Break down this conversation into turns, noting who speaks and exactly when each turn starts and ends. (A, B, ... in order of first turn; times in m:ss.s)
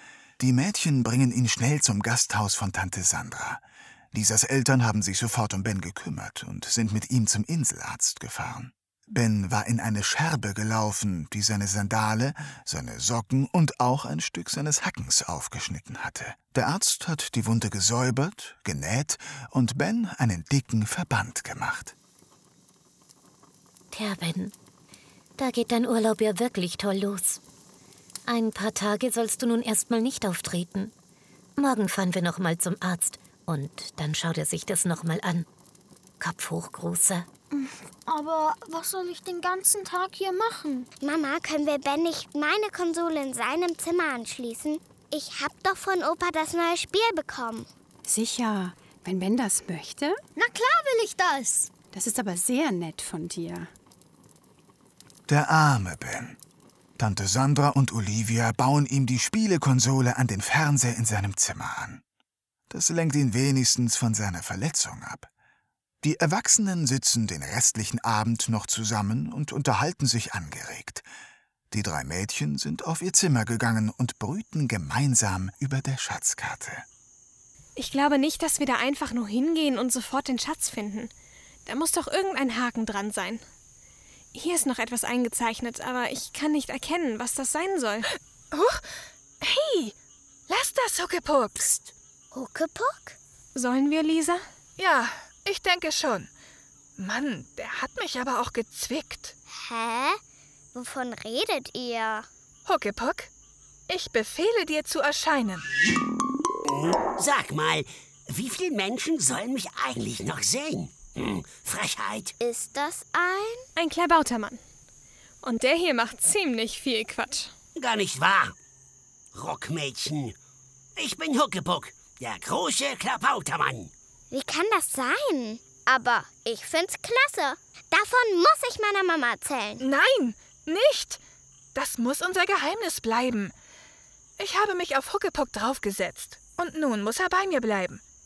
0:00.4-0:22.0 A
0:23.9-0:24.5 B
0:25.4-0:27.4 B
0:28.3-0:30.9 B
0:31.6-0:35.5 B
0:36.2-0:37.3 B
0:37.5-0:40.9 C
0:41.0-0:47.7 D
0:48.1-0:50.2 E
0:50.4-0:51.7 C
0:51.9-0:53.7 E
0:55.3-0:56.4 A
0:57.0-1:02.0 A
1:02.7-1:05.3 A
1:06.0-1:11.0 A
1:11.7-1:16.9 A
1:17.8-1:21.1 F
1:21.7-1:23.4 F
1:24.3-1:28.1 F
1:28.5-1:28.9 G
1:29.4-1:30.0 G
1:30.5-1:31.7 G
1:31.6-1:31.9 H
1:32.3-1:33.2 D
1:33.6-1:34.4 F
1:34.8-1:36.3 G
1:37.0-1:39.3 G
1:39.5-1:40.2 D
1:40.8-1:42.3 D
1:42.7-1:43.3 G
1:43.9-1:45.7 G
1:46.7-1:52.3 H
1:52.4-1:53.7 D
1:53.8-1:54.6 F
1:55.4-1:57.5 F
1:57.8-1:58.6 H
1:59.3-2:00.4 H
2:01.0-2:03.9 H
2:04.3-2:09.8 D
2:09.8-2:11.2 G
2:11.8-2:13.5 G
2:14.4-2:18.0 G